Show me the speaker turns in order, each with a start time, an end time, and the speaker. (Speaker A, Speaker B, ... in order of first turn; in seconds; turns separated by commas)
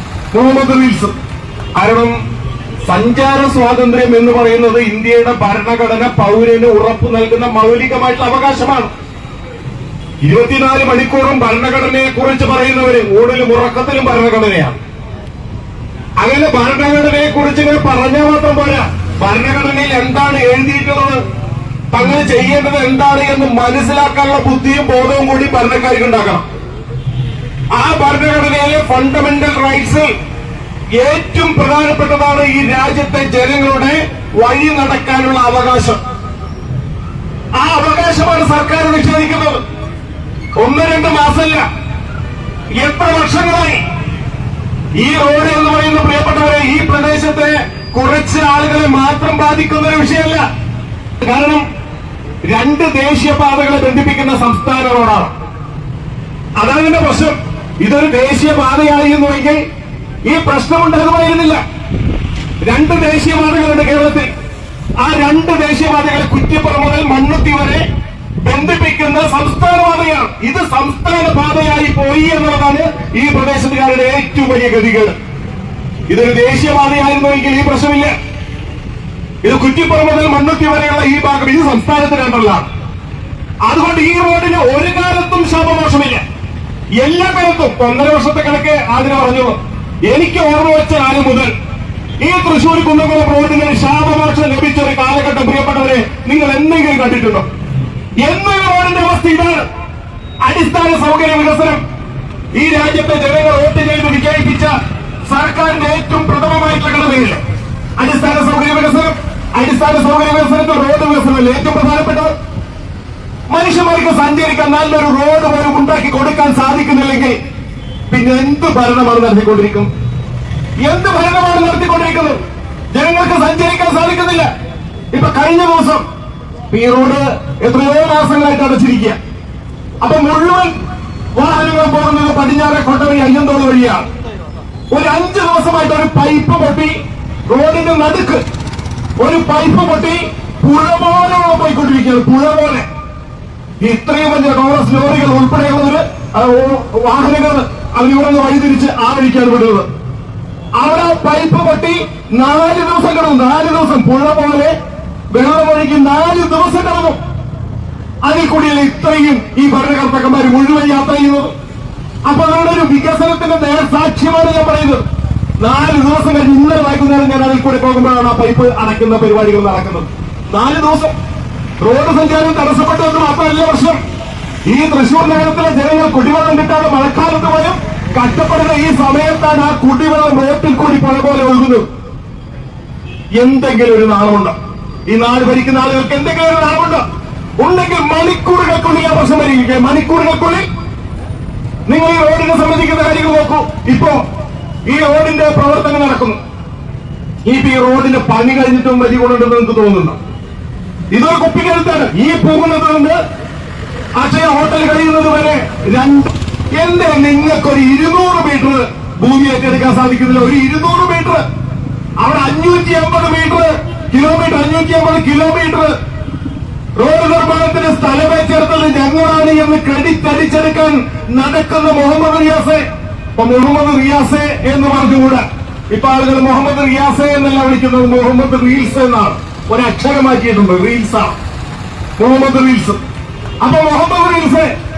Speaker A: 0.3-1.1, Speaker A: 1.7-2.2, Speaker A: 2.8-8.9, Speaker A: 10.2-14.8, Speaker A: 16.2-21.2, Speaker A: 21.9-26.4, Speaker A: 27.7-30.1, Speaker A: 31.0-36.0, Speaker A: 37.5-39.6, Speaker A: 40.6-41.6, Speaker A: 42.8-43.8, Speaker A: 45.0-50.4, Speaker A: 51.2-51.6, Speaker A: 52.5-55.3, Speaker A: 56.6-59.6, Speaker A: 60.2-61.6, Speaker A: 62.6-64.3, Speaker A: 65.0-67.8, Speaker A: 68.4-75.1, Speaker A: 76.1-78.1, Speaker A: 79.4-82.7, Speaker A: 83.6-86.2, Speaker A: 87.0-89.6, Speaker A: 90.1-91.5, Speaker A: 92.2-97.5, Speaker A: 98.2-99.6, Speaker A: 100.4-101.8, Speaker A: 102.5-104.7, Speaker A: 105.3-107.4, Speaker A: 108.0-112.3, Speaker A: 113.5-117.3, Speaker A: 118.1-119.9, Speaker A: 120.8-122.4, Speaker A: 122.9-124.5, Speaker A: 125.1-126.0, Speaker A: 126.7-129.2, Speaker A: 130.0-130.7, Speaker A: 131.3-134.1, Speaker A: 134.9-138.4, Speaker A: 139.2-142.9, Speaker A: 143.8-149.9, Speaker A: 150.8-154.7, Speaker A: 155.3-157.2, Speaker A: 158.2-161.5, Speaker A: 162.2-165.0, Speaker A: 165.6-171.2, Speaker A: 171.8-174.0, Speaker A: 174.7-181.8, Speaker A: 183.4-184.5, Speaker A: 185.1-187.0, Speaker A: 187.6-190.7, Speaker A: 191.9-194.2, Speaker A: 194.8-196.4, Speaker A: 197.4-200.2, Speaker A: 201.1-203.2, Speaker A: 204.2-211.4, Speaker A: 212.2-215.9, Speaker A: 217.0-231.3, Speaker A: 232.2-233.0, Speaker A: 233.6-234.7